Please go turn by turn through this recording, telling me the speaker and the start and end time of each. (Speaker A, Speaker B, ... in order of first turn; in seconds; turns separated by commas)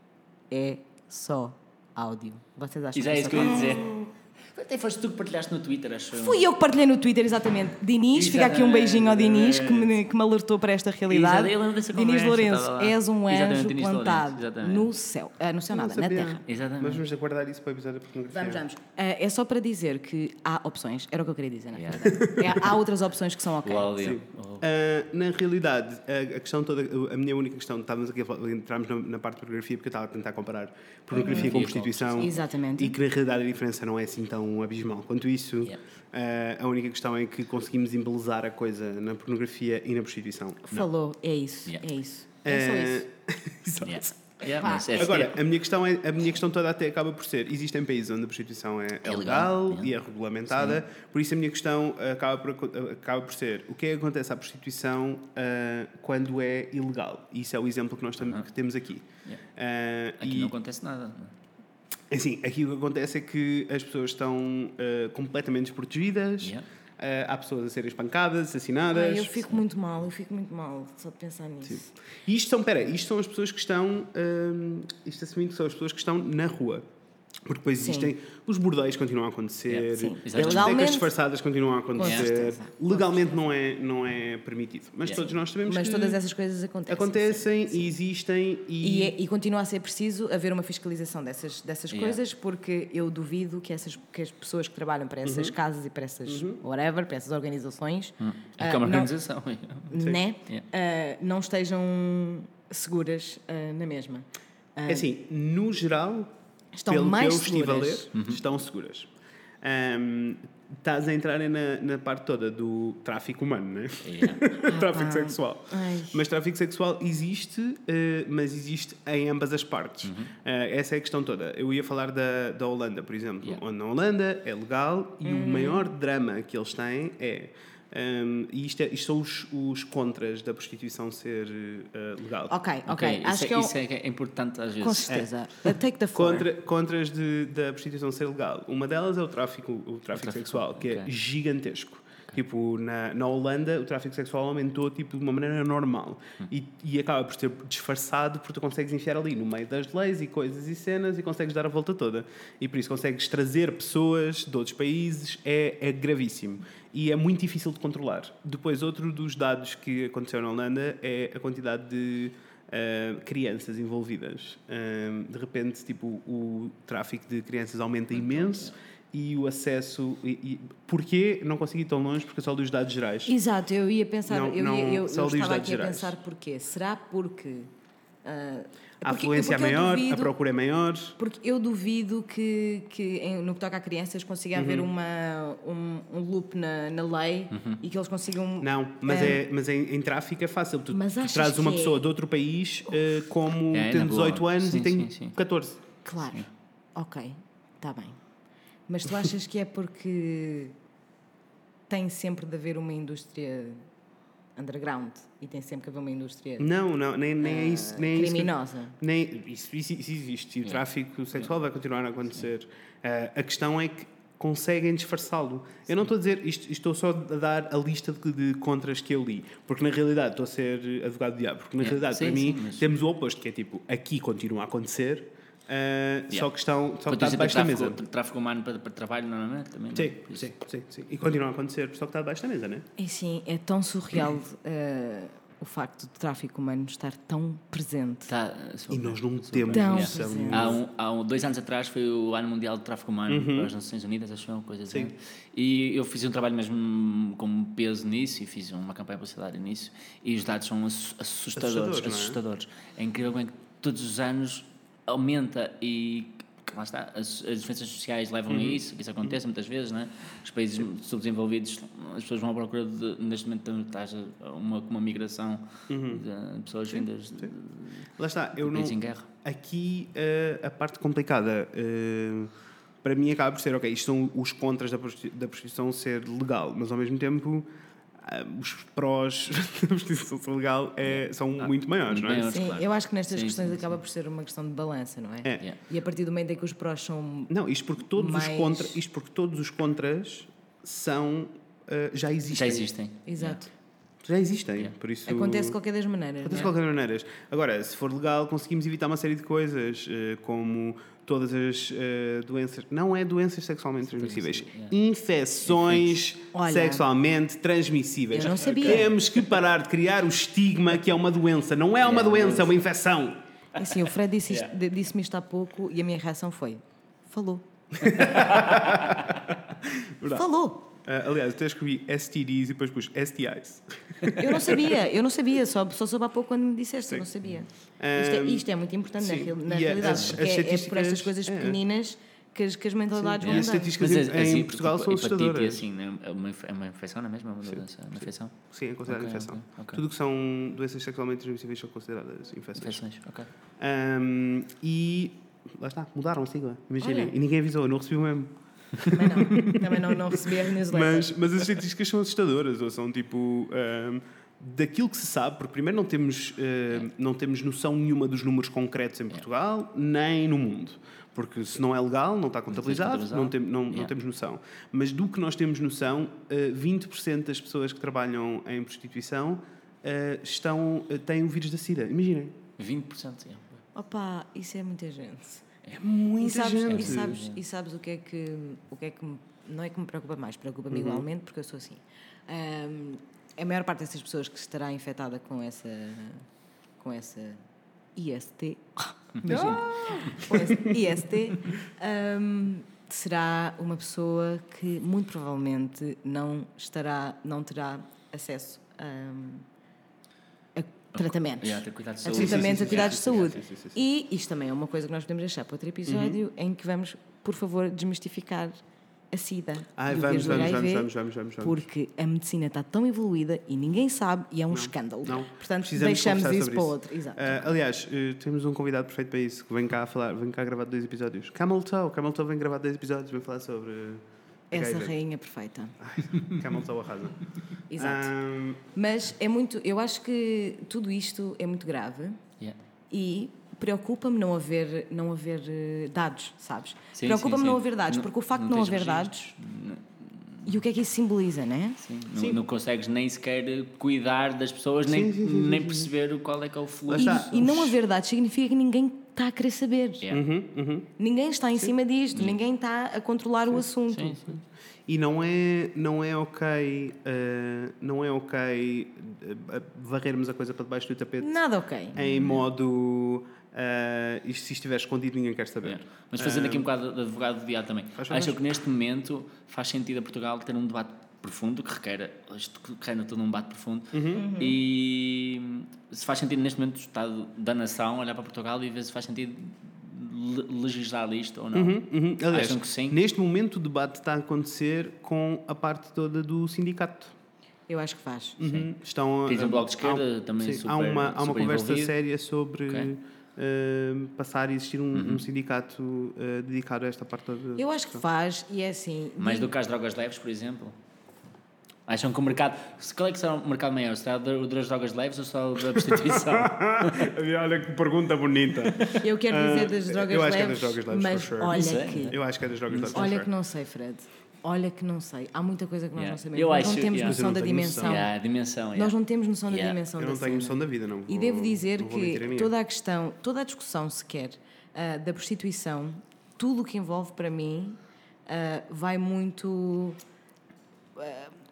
Speaker A: 0.5-4.1, Speaker B: 2.9-6.5, Speaker A: 6.1-16.4, Speaker B: 8.1-9.9, Speaker B: 11.1-14.9, Speaker C: 15.7-18.6, Speaker B: 16.4-17.0, Speaker A: 18.3-24.0, Speaker B: 21.8-22.2, Speaker C: 22.1-22.5, Speaker B: 23.6-24.6, Speaker C: 24.0-40.9, Speaker B: 31.1-32.4, Speaker A: 31.1-31.6, Speaker A: 32.2-33.0, Speaker A: 40.7-43.0, Speaker C: 42.4-60.5, Speaker B: 43.8-45.4, Speaker A: 44.6-45.1, Speaker B: 49.0-49.9, Speaker B: 50.5-50.8, Speaker B: 60.2-61.3, Speaker C: 62.1-69.5, Speaker A: 68.9-71.9, Speaker C: 71.7-76.8, Speaker C: 77.4-86.2, Speaker A: 77.8-78.1, Speaker B: 79.7-80.9, Speaker A: 79.9-81.1, Speaker A: 81.9-83.3, Speaker B: 82.0-82.3, Speaker A: 85.6-87.9, Speaker C: 86.9-89.1, Speaker A: 88.8-99.1, Speaker B: 91.9-92.2, Speaker C: 95.2-95.5, Speaker C: 96.2-96.6, Speaker B: 98.2-100.0, Speaker A: 99.9-105.1, Speaker C: 104.9-106.3, Speaker A: 106.7-108.1, Speaker C: 106.9-109.1, Speaker B: 108.1-108.4, Speaker C: 109.6-132.6, Speaker B: 114.0-114.5, Speaker A: 114.7-116.2, Speaker B: 120.0-120.3, Speaker A: 125.2-125.9, Speaker A: 132.5-133.8, Speaker B: 132.8-135.2, Speaker A: 134.8-136.5, Speaker C: 136.1-173.3, Speaker B: 140.2-141.1, Speaker B: 168.1-168.7, Speaker A: 173.2-177.7, Speaker C: 174.3-176.1, Speaker A: 178.2-180.3, Speaker C: 179.0-181.2, Speaker A: 181.2-189.4, Speaker C: 184.5-184.9, Speaker B: 187.5-187.8, Speaker C: 188.6-195.8, Speaker A: 190.9-192.0, Speaker B: 193.7-195.3, Speaker A: 196.0-198.2, Speaker A: 198.9-200.7, Speaker A: 201.9-203.8, Speaker A: 204.6-206.7, Speaker C: 206.6-228.0, Speaker A: 207.4-208.9, Speaker B: 221.8-222.9, Speaker B: 227.1-230.4, Speaker C: 229.9-232.8, Speaker A: 233.0-238.3, Speaker B: 238.3-268.1, Speaker C: 238.9-240.8, Speaker A: 239.7-240.7, Speaker C: 243.3-243.7, Speaker C: 251.5-252.4, Speaker C: 258.5-259.4, Speaker C: 265.9-266.2, Speaker C: 266.9-267.5, Speaker C: 268.2-272.5, Speaker B: 268.6-269.3, Speaker C: 273.0-277.7, Speaker C: 278.2-282.5, Speaker B: 281.0-284.0, Speaker A: 282.5-287.5, Speaker C: 287.5-292.9, Speaker A: 288.1-289.0, Speaker B: 292.5-293.6, Speaker A: 293.3-293.7, Speaker C: 294.2-295.8, Speaker A: 295.2-296.7, Speaker C: 296.4-313.4, Speaker B: 304.0-304.9, Speaker B: 305.6-306.2, Speaker A: 306.5-307.1, Speaker A: 308.3-309.1, Speaker B: 308.6-309.1, Speaker B: 312.0-312.8, Speaker A: 313.8-317.6, Speaker C: 318.0-320.5, Speaker B: 318.2-319.1, Speaker A: 320.3-320.9, Speaker C: 321.0-324.9, Speaker A: 324.4-333.9, Speaker C: 328.0-328.6, Speaker C: 329.2-331.8, Speaker B: 330.0-330.3, Speaker C: 333.1-335.8, Speaker B: 333.4-340.0, Speaker C: 337.6-343.0, Speaker B: 342.8-343.5, Speaker C: 343.8-372.6, Speaker A: 347.0-347.4, Speaker A: 349.1-351.3, Speaker B: 362.7-364.1, Speaker B: 372.8-373.8, Speaker A: 373.9-375.6, Speaker C: 375.9-377.4, Speaker A: 376.4-386.4, Speaker B: 376.9-377.6, Speaker C: 380.9-381.2, Speaker A: 387.0-387.6, Speaker A: 388.1-399.6, Speaker B: 389.4-390.3, Speaker C: 389.4-390.9, Speaker A: 400.7-408.8, Speaker B: 401.1-403.6, Speaker C: 402.3-404.0, Speaker C: 406.1-406.4, Speaker A: 409.3-417.6, Speaker C: 410.0-411.8, Speaker C: 414.7-425.1, Speaker A: 424.7-425.9, Speaker C: 426.0-427.4, Speaker A: 427.9-428.3, Speaker C: 427.9-428.8, Speaker A: 428.9-432.4, Speaker A: 433.1-439.5, Speaker B: 437.1-440.7, Speaker A: 440.6-442.0, Speaker B: 442.0-447.7, Speaker C: 442.3-442.6, Speaker C: 445.1-446.1, Speaker C: 447.1-447.9, Speaker A: 447.1-450.2, Speaker C: 450.3-451.1, Speaker A: 451.2-454.4, Speaker B: 454.1-454.5, Speaker C: 455.1-461.6, Speaker A: 461.4-462.2, Speaker C: 462.1-466.9, Speaker B: 465.8-483.2, Speaker C: 468.2-468.6, Speaker C: 474.1-474.5, Speaker A: 474.3-474.8, Speaker C: 481.7-487.3, Speaker A: 487.9-488.6, Speaker C: 488.6-498.2, Speaker B: 489.5-492.1, Speaker B: 495.1-495.4, Speaker A: 497.8-499.7, Speaker B: 499.4-500.9, Speaker B: 502.1-507.3, Speaker C: 505.9-513.5, Speaker A: 509.2-512.4, Speaker B: 511.7-513.3, Speaker A: 513.1-518.3, Speaker B: 516.1-517.5, Speaker C: 517.1-518.2, Speaker B: 518.0-519.1, Speaker A: 518.9-530.2, Speaker B: 519.7-520.0, Speaker C: 520.2-522.7, Speaker A: 531.1-531.5